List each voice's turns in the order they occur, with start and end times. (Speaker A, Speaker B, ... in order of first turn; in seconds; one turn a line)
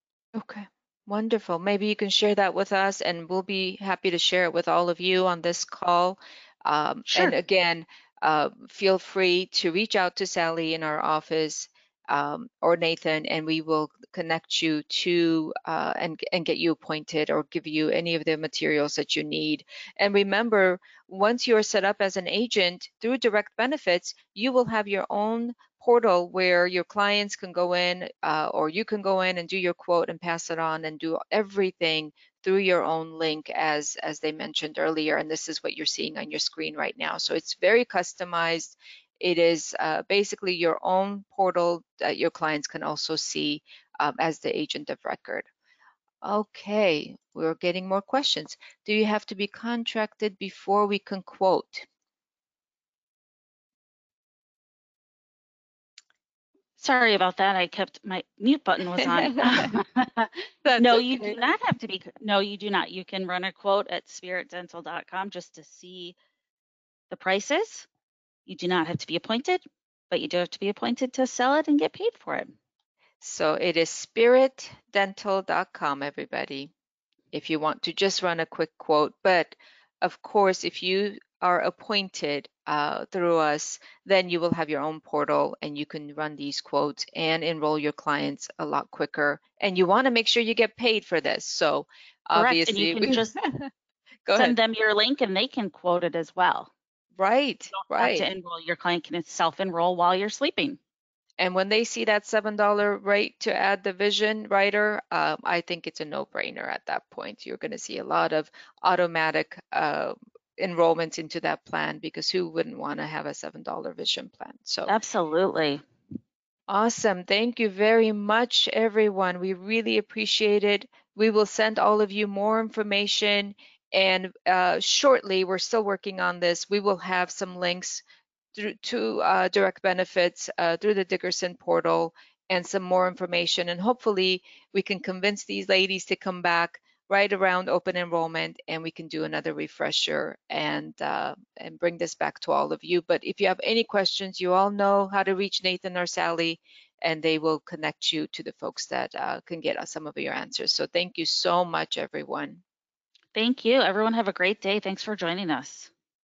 Speaker A: 0.3-45.5
Speaker B: 7.1-7.3
Speaker A: 46.2-51.9
Speaker B: 56.8-66.1
Speaker A: 59.0-59.7
Speaker A: 60.6-61.4
Speaker B: 67.1-67.9
Speaker B: 68.5-72.5
Speaker A: 73.2-76.7
Speaker A: 77.3-93.7
Speaker B: 92.3-93.3
Speaker A: 94.2-94.5
Speaker B: 94.3-96.7
Speaker A: 97.2-98.3
Speaker B: 97.8-100.8
Speaker A: 101.4-115.0
Speaker B: 114.9-115.8
Speaker A: 116.7-128.0
Speaker A: 128.5-152.6
Speaker B: 153.3-155.9